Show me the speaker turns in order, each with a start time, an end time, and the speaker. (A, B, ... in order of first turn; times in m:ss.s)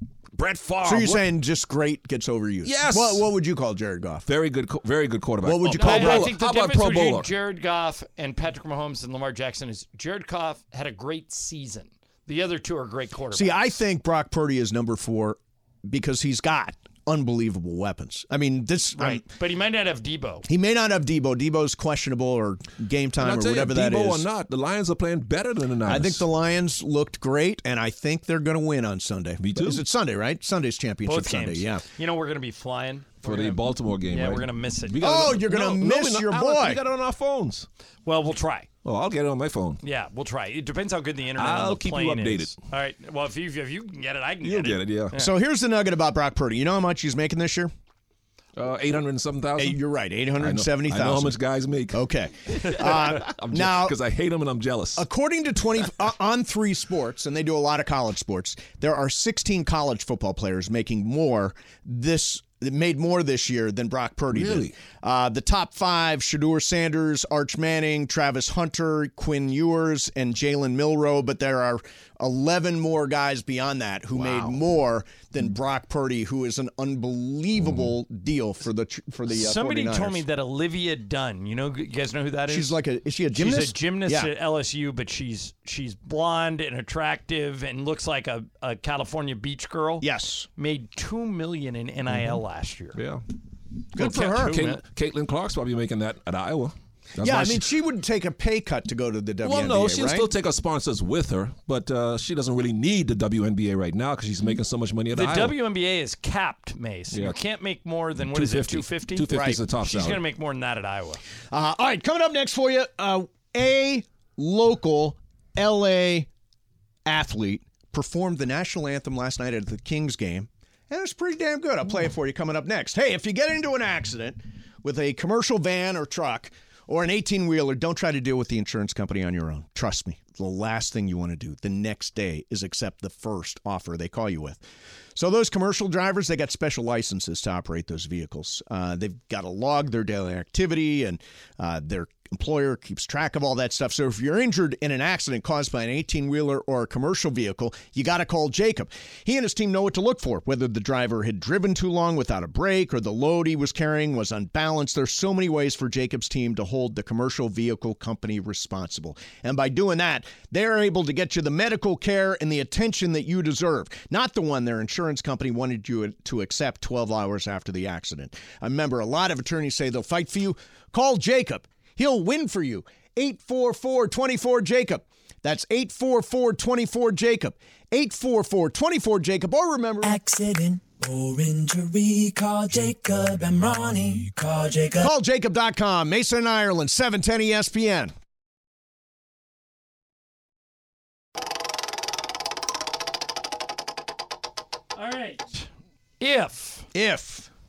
0:00.4-0:01.2 A
0:00.8-0:04.3 B
0:02.6-0:03.3 A
0:04.2-0:07.3 A
0:05.4-0:06.3 B
0:05.6-0:13.6 C
0:13.3-0:19.2 B
0:18.9-0:20.5 C
0:20.5-0:24.2 B
0:23.2-0:26.2 A
0:25.8-0:31.8 B
0:29.4-0:29.8 A
0:31.0-0:35.0 C
0:33.2-0:37.7 A
0:35.0-0:36.8 B
0:38.0-0:38.7 C
0:38.8-0:39.8 A
0:39.8-0:45.3 C
0:41.4-0:42.6 A
0:44.4-0:45.2 A
0:45.1-0:47.7 B
0:48.6-0:49.8 A
0:49.6-0:51.4 B
0:50.3-0:55.0 A
0:51.9-0:54.0 B
0:55.0-1:20.2 B
1:04.3-1:04.7 A
1:14.1-1:14.6 A
1:19.3-1:22.7 C
1:22.5-1:24.3 B
1:23.3-1:33.0 C
1:30.0-1:30.5 B
1:32.1-1:32.4 A
1:32.9-1:33.2 A
1:33.9-1:34.6 B
1:34.0-1:34.8 C
1:34.0-1:37.7 A
1:37.2-1:40.3 B
1:39.4-1:45.6 A
1:45.1-1:51.2 C
1:47.1-1:47.4 A
1:48.3-1:50.2 A
1:49.3-1:49.6 B
1:51.5-1:56.3 B
1:57.0-2:14.6 B
2:15.1-3:00.2 B
3:00.0-3:05.1 D
3:05.0-3:08.1 B
3:14.9-3:15.7 C
3:16.2-3:16.9 C
3:16.9-3:17.5 B